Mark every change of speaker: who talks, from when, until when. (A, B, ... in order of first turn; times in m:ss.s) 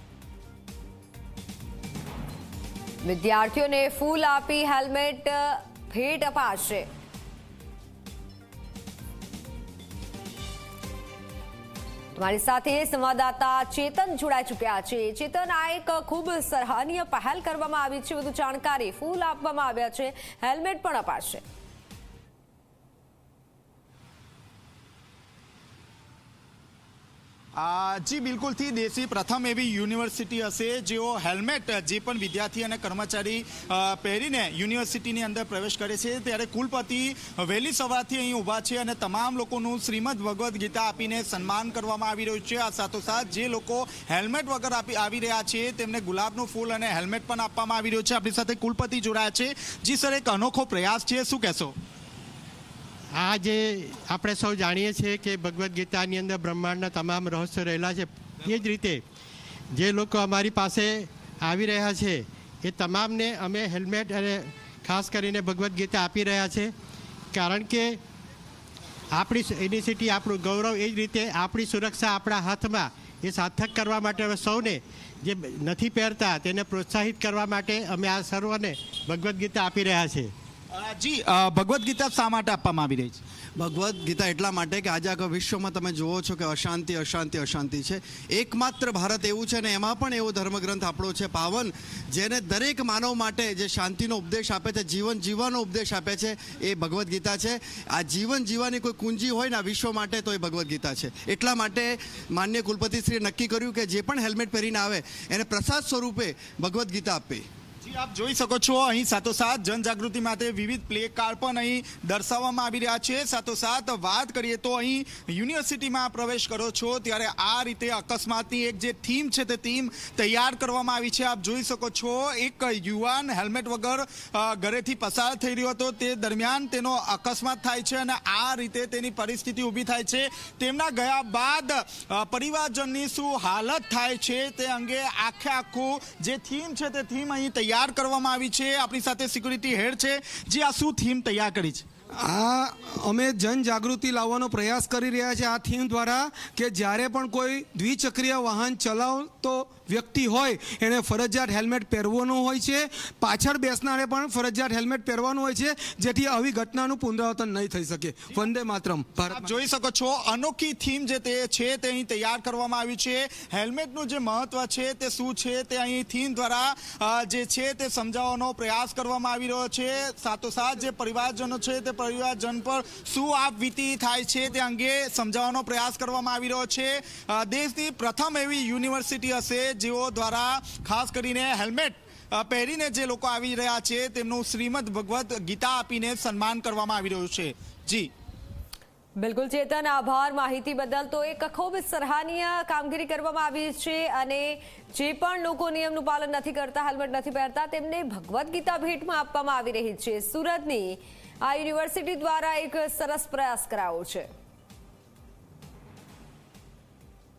0:03.0-0:06.9 A
0:12.2-0:21.4 A
0:27.6-0:51.8 B
0:53.2-0:59.0 C
0:59.7-1:06.7 C
1:07.3-1:08.0 C
1:09.1-1:20.3 C
1:20.7-1:23.2 B
1:23.6-1:47.5 D
1:47.8-2:21.8 B
2:22.2-2:39.5 E
2:39.3-3:08.1 B
3:09.2-3:24.3 A